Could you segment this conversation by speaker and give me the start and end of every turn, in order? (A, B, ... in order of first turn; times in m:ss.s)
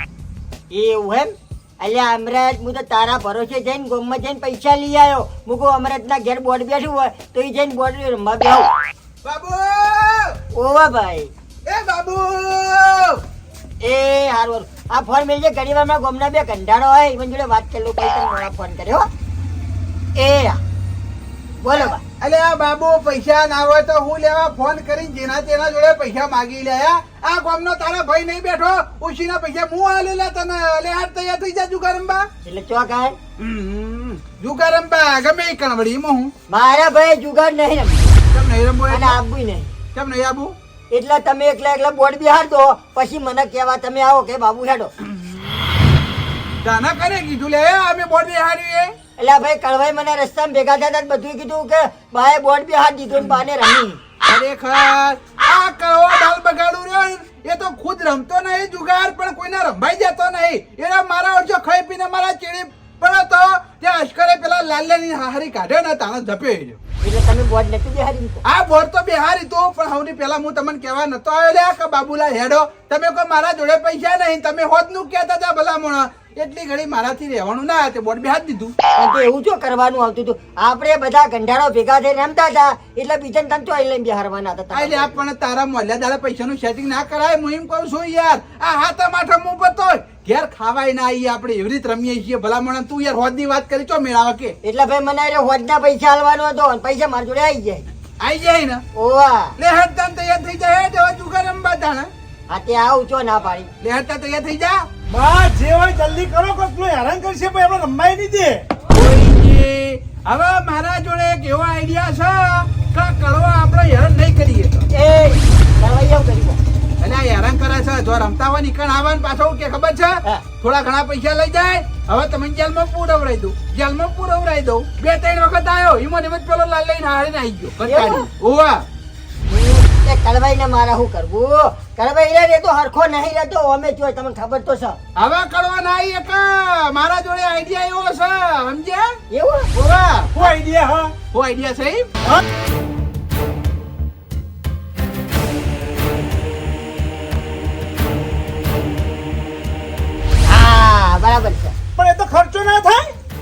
0:00.7-0:08.7 A
0:09.2-0:10.4 B
0:10.5-0:11.3 A
0:11.7-0:13.2 B
0:13.8-0:19.1 A
0:20.2-0:20.6 A
0:21.6-0:22.0 A
0:21.7-0:32.3 B
0:32.4-0:33.2 A
0:33.4-0:36.3 B
0:36.5-0:38.1 A
0:38.3-0:39.2 B
0:38.9-0:39.8 A
0:39.9-0:40.5 B
0:40.9-0:44.9 A
0:46.6-0:48.9 B
0:49.2-0:54.0 A
0:54.3-1:06.8 B
1:07.0-1:08.4 A
1:08.4-1:18.7 B
1:19.0-1:25.2 A
1:24.7-1:34.6 B
1:34.6-1:37.9 A
1:38.2-1:38.8 B
1:39.0-1:39.6 A
1:39.6-1:42.1 B
1:42.5-1:43.7 A
1:43.8-1:44.9 B
1:45.1-1:48.7 C
1:48.9-1:54.9 B
1:54.9-1:56.6 A
1:57.0-2:08.8 B
2:07.8-2:08.3 A
2:09.4-2:15.0 A
2:15.2-2:19.2 B
2:19.3-2:19.7 A
2:19.7-2:20.5 B
2:20.4-2:21.1 C
2:21.3-2:22.1 B
2:30.5-2:31.8 A
2:32.0-2:33.1 C